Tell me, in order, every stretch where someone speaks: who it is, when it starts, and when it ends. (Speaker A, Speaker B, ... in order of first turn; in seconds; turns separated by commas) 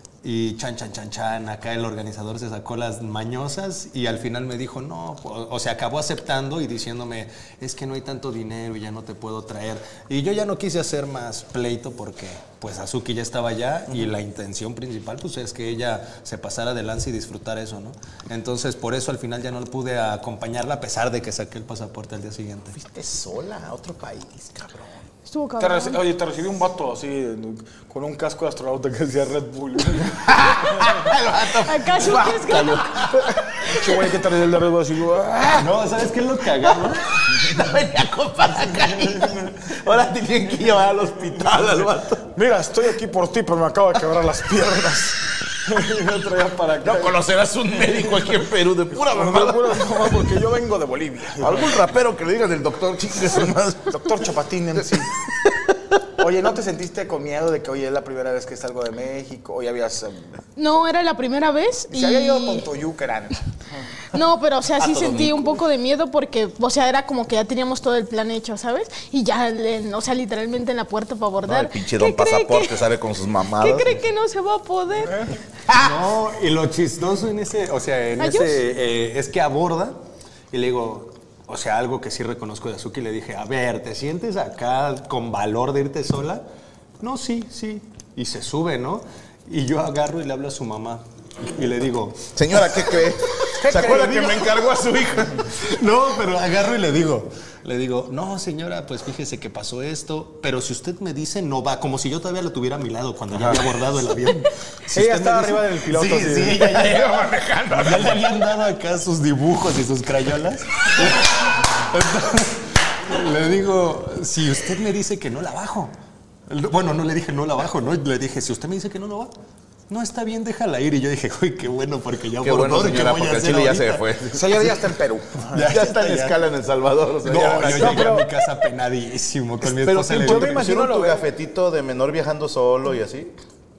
Speaker A: 0.2-22.8, Speaker B: 22.7-25.0, Speaker C: 25.2-26.0, Speaker D: 25.6-31.1, Speaker B: 30.2-34.0, Speaker C: 31.6-33.2, Speaker D: 33.6-35.8, Speaker A: 35.6-37.5, Speaker B: 36.6-42.3, Speaker D: 42.3-47.2, Speaker B: 46.8-50.1, Speaker D: 48.9-51.8, Speaker B: 51.4-54.2, Speaker D: 53.9-55.1, Speaker B: 55.2-56.0, Speaker D: 56.2-60.4, Speaker C: 60.5-62.6, Speaker D: 61.9-63.9, Speaker C: 64.1-72.8, Speaker B: 64.8-65.4, Speaker B: 71.4-74.0, Speaker C: 73.6-75.3, Speaker A: 75.7-80.0, Speaker C: 78.2-78.6, Speaker A: 80.5-86.4, Speaker A: 87.0-93.5, Speaker B: 92.3-95.5, Speaker D: 93.6-94.7, Speaker A: 95.5-105.8, Speaker D: 104.9-106.9, Speaker B: 105.9-108.2, Speaker A: 106.6-107.2, Speaker A: 107.7-115.9, Speaker A: 116.5-119.3, Speaker A: 119.9-124.6, Speaker B: 122.4-124.4, Speaker D: 124.3-125.7, Speaker A: 125.5-126.4, Speaker B: 125.6-128.1, Speaker A: 127.2-130.7, Speaker D: 127.6-128.3, Speaker B: 129.6-133.3, Speaker D: 130.1-131.2